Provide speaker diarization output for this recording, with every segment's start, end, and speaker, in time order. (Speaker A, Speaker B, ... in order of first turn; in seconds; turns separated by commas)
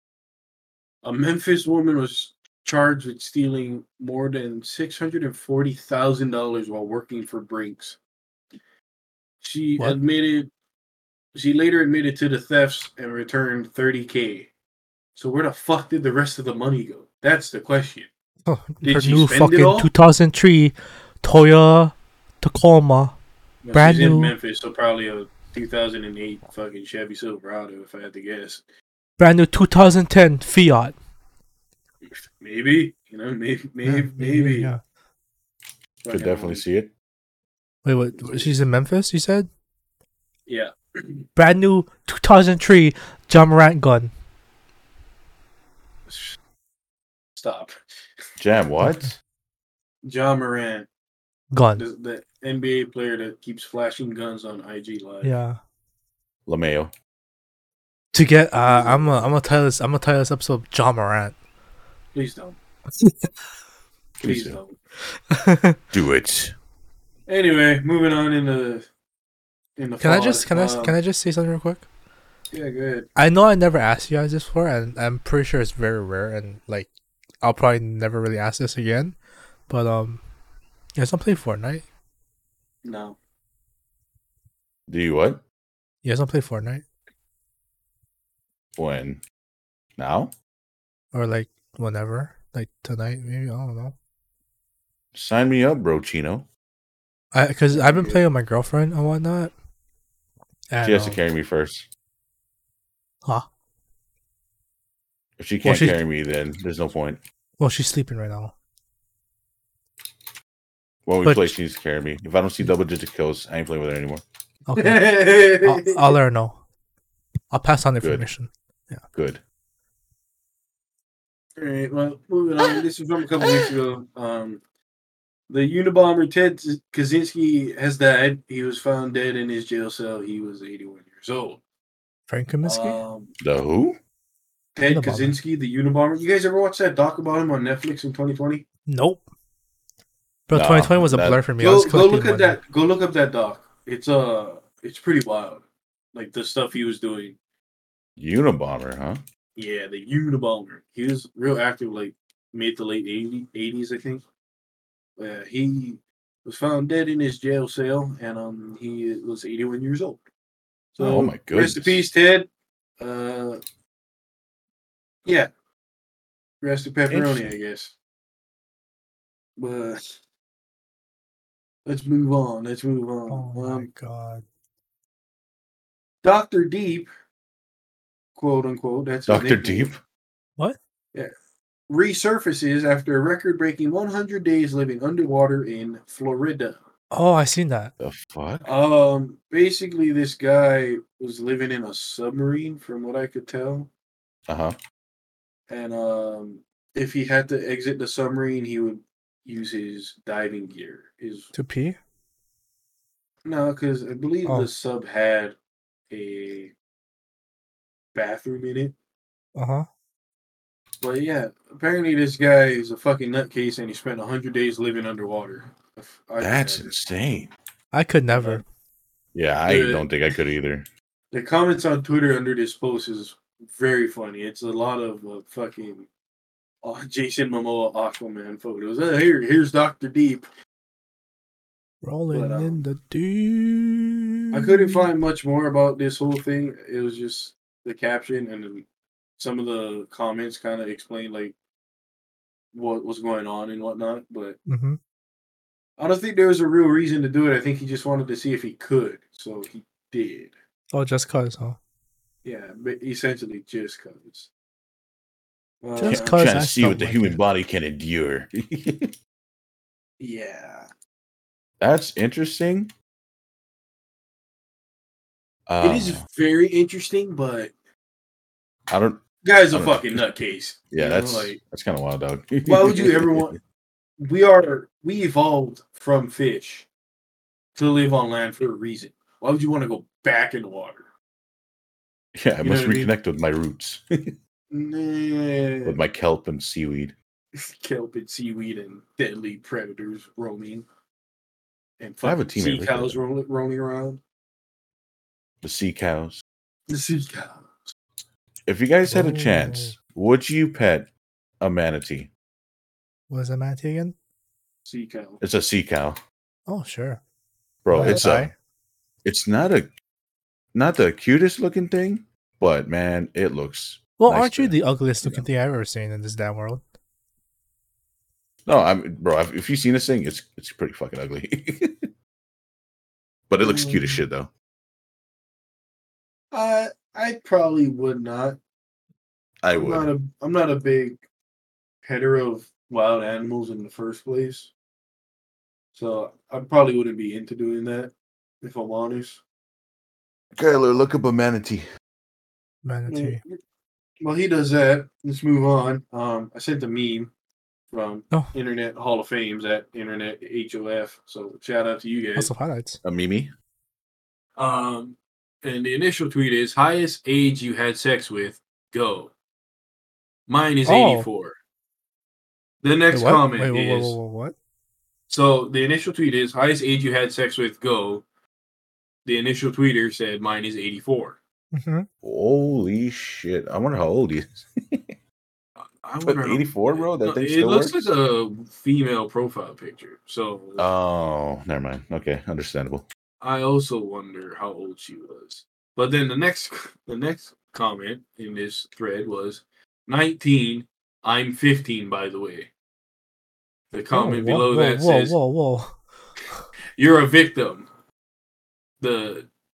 Speaker A: 1.0-8.0, Speaker A: 9.4-10.5, Speaker A: 11.3-14.5, Speaker A: 15.2-18.1, Speaker B: 18.5-23.2, Speaker A: 18.8-19.9, Speaker A: 23.6-28.6, Speaker B: 23.7-24.4, Speaker B: 29.2-30.9, Speaker A: 32.4-34.7, Speaker B: 33.9-34.8, Speaker A: 36.0-36.6, Speaker C: 36.1-36.9, Speaker B: 37.8-39.5, Speaker A: 38.2-38.5, Speaker A: 40.5-41.3, Speaker B: 41.4-44.1, Speaker A: 46.1-46.4, Speaker A: 47.4-47.8, Speaker C: 48.4-49.2, Speaker A: 50.0-50.9, Speaker B: 51.5-51.8, Speaker A: 51.8-55.4, Speaker B: 55.2-55.6, Speaker C: 56.5-56.9, Speaker B: 58.1-61.4, Speaker A: 58.6-59.3, Speaker A: 62.1-62.6, Speaker C: 64.2-64.6, Speaker A: 64.2-64.8, Speaker B: 65.3-65.8, Speaker C: 65.9-66.5, Speaker A: 67.3-68.9, Speaker A: 69.8-71.0, Speaker B: 70.0-71.9, Speaker A: 72.5-73.1, Speaker B: 73.2-76.9, Speaker B: 77.4-79.2, Speaker B: 79.7-80.2, Speaker B: 81.0-81.8, Speaker A: 82.8-83.2, Speaker C: 84.9-85.4, Speaker B: 86.0-86.8, Speaker C: 88.8-89.2, Speaker C: 90.0-90.3, Speaker B: 91.1-94.0, Speaker C: 95.1-96.5, Speaker B: 97.3-99.5, Speaker A: 97.7-98.2, Speaker B: 100.7-101.2, Speaker C: 100.8-101.9, Speaker C: 105.4-107.2, Speaker B: 105.6-106.0, Speaker B: 107.6-108.5, Speaker C: 111.1-114.2, Speaker B: 111.2-111.5, Speaker B: 114.7-115.0, Speaker A: 114.8-116.2, Speaker B: 115.6-116.6, Speaker B: 117.5-119.0, Speaker C: 118.0-118.3, Speaker C: 119.2-119.4, Speaker A: 121.6-124.6, Speaker A: 125.5-131.6, Speaker B: 132.3-133.0, Speaker A: 132.6-133.3, Speaker C: 133.4-134.0, Speaker A: 134.8-138.6, Speaker B: 134.9-135.3, Speaker B: 138.9-139.2, Speaker B: 140.5-142.6, Speaker C: 140.5-141.4, Speaker A: 141.6-145.6, Speaker A: 146.1-147.4, Speaker C: 148.2-149.2, Speaker A: 149.6-154.2, Speaker A: 155.2-160.2, Speaker A: 160.9-162.5, Speaker C: 161.0-162.0, Speaker A: 163.0-163.6, Speaker A: 165.2-165.5, Speaker A: 166.6-167.9, Speaker C: 167.1-167.4, Speaker A: 169.6-170.2, Speaker A: 171.9-173.9, Speaker B: 173.3-174.4, Speaker A: 176.2-177.1, Speaker A: 178.4-179.9, Speaker C: 179.3-180.0, Speaker A: 181.9-186.8, Speaker B: 187.1-187.9, Speaker C: 188.0-188.7, Speaker A: 188.7-193.9, Speaker C: 194.5-194.8, Speaker A: 195.7-201.5, Speaker B: 201.5-202.0, Speaker A: 203.4-205.6, Speaker A: 206.1-206.7, Speaker A: 208.1-208.9, Speaker B: 209.6-209.9, Speaker A: 211.0-216.9, Speaker C: 216.4-217.5, Speaker B: 217.9-218.6, Speaker A: 218.3-218.6, Speaker C: 219.3-220.9, Speaker A: 219.7-220.1, Speaker A: 221.3-226.1, Speaker A: 226.8-230.4, Speaker B: 232.0-235.1, Speaker A: 232.3-232.8, Speaker A: 234.5-238.9, Speaker A: 239.4-241.6, Speaker A: 242.7-244.6, Speaker B: 244.7-245.0, Speaker A: 246.0-250.5, Speaker B: 250.9-251.8, Speaker A: 252.4-254.5, Speaker A: 255.8-256.5, Speaker B: 256.0-257.4, Speaker C: 256.1-259.1, Speaker A: 260.2-260.9, Speaker C: 261.8-262.9, Speaker C: 265.7-266.2, Speaker A: 265.8-267.7, Speaker C: 268.9-270.2, Speaker A: 269.4-271.6, Speaker C: 270.9-273.6, Speaker A: 272.6-273.5, Speaker A: 274.2-276.9, Speaker A: 277.8-281.1, Speaker C: 282.4-284.3, Speaker A: 282.6-283.1, Speaker A: 284.7-286.0, Speaker C: 285.9-287.1, Speaker A: 287.6-290.9, Speaker A: 292.0-294.2, Speaker C: 292.2-293.2, Speaker C: 295.6-296.4, Speaker A: 296.9-297.9, Speaker C: 298.7-301.1, Speaker B: 299.1-299.9, Speaker C: 301.6-302.3, Speaker B: 303.3-304.1, Speaker A: 304.9-305.4, Speaker C: 305.4-306.2, Speaker B: 306.7-307.2, Speaker C: 307.9-308.5, Speaker B: 307.9-308.5, Speaker C: 309.2-309.9, Speaker C: 310.7-315.5, Speaker B: 314.2-316.8, Speaker C: 318.7-322.1, Speaker C: 323.5-324.5, Speaker A: 323.6-324.2, Speaker A: 326.5-328.6, Speaker C: 329.6-330.1, Speaker A: 329.7-331.2, Speaker A: 332.0-334.7, Speaker A: 335.9-339.4, Speaker C: 340.6-341.9, Speaker B: 342.8-343.4, Speaker A: 343.1-343.6, Speaker A: 344.2-347.3, Speaker A: 347.9-352.5, Speaker B: 352.4-353.0, Speaker C: 353.0-353.5, Speaker A: 354.6-359.3, Speaker A: 360.5-361.6, Speaker B: 360.9-361.3, Speaker A: 362.8-364.2, Speaker B: 363.1-364.5, Speaker A: 365.3-368.2, Speaker A: 369.2-371.4, Speaker B: 371.7-372.1, Speaker C: 372.2-375.1, Speaker A: 376.0-380.9, Speaker C: 376.2-378.1, Speaker C: 380.8-383.1, Speaker A: 383.4-392.7, Speaker A: 393.9-395.4, Speaker B: 394.1-396.0, Speaker A: 397.0-397.9, Speaker A: 399.0-399.5